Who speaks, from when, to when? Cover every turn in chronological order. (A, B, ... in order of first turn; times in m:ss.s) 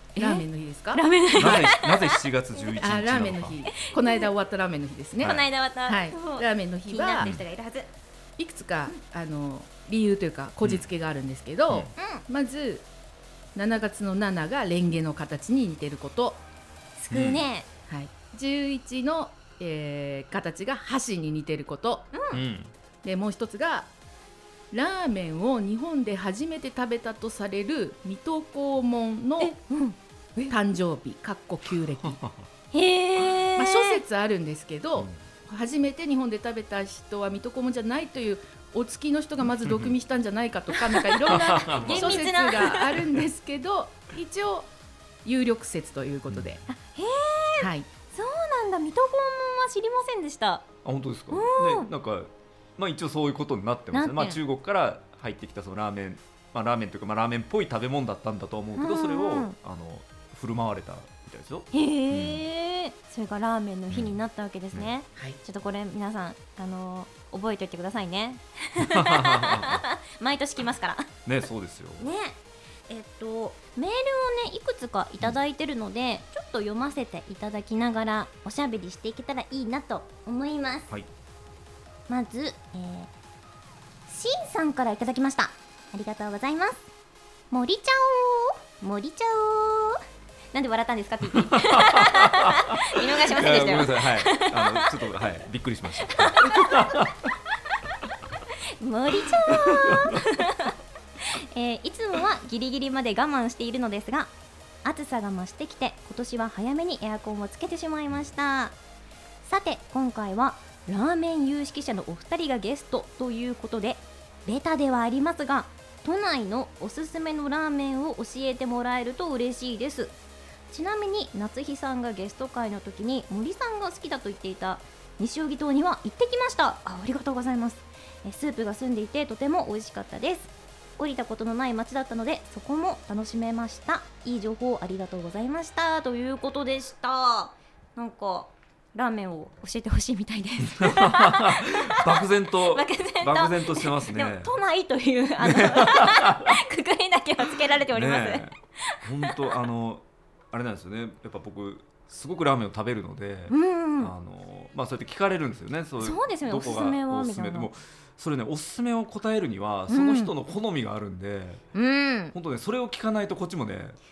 0:00.2-0:02.2 A
0:00.2-0:01.0 B
0:01.3-0:03.6 C
0:02.8-0:07.3 B
0:03.8-0:04.3 A
0:05.2-0:07.9 A
0:08.4-0:12.8 B
0:12.0-0:12.2 A
0:13.5-0:16.4 B
0:17.0-0:17.7 A
0:17.1-0:17.4 C
0:17.9-0:22.1 B
0:22.1-0:22.4 A
0:22.3-0:22.7 C
0:23.0-0:23.9 B
0:24.7-0:29.6 B
0:29.4-0:30.5 A
0:30.5-0:32.2 B
0:32.0-0:32.4 C
0:32.7-0:34.0 A
0:33.6-0:44.7 B
0:39.6-0:39.9 C
0:40.8-0:43.0 A
0:41.3-0:42.2 C
0:45.2-0:46.6 B
0:46.3-0:46.6 C
0:46.7-0:50.6 A
0:47.6-0:47.9 B
0:50.8-1:02.4 C
0:51.3-0:51.9 A
0:53.9-0:54.4 A
0:58.8-0:59.5 A
1:01.7-1:11.1 A
1:08.8-1:09.8 C
1:11.2-1:12.1 C
1:12.0-1:12.4 A
1:12.9-1:20.9 A
1:22.1-1:23.1 A
1:24.1-1:26.8 A
1:27.5-1:30.0 A
1:30.5-1:34.9 A
1:31.3-1:37.3 C
1:36.0-1:37.1 A
1:38.8-1:44.3 A
1:39.2-1:40.3 C
1:44.8-1:48.7 A
1:49.4-2:00.1 A
2:00.7-2:29.5 A
2:20.6-2:24.6 C
2:25.4-2:26.6 C
2:27.9-2:41.6 C
2:33.5-2:34.1 A
2:36.0-2:37.7 A
2:39.9-2:40.3 A
2:41.7-2:42.3 A
2:42.3-2:44.0 C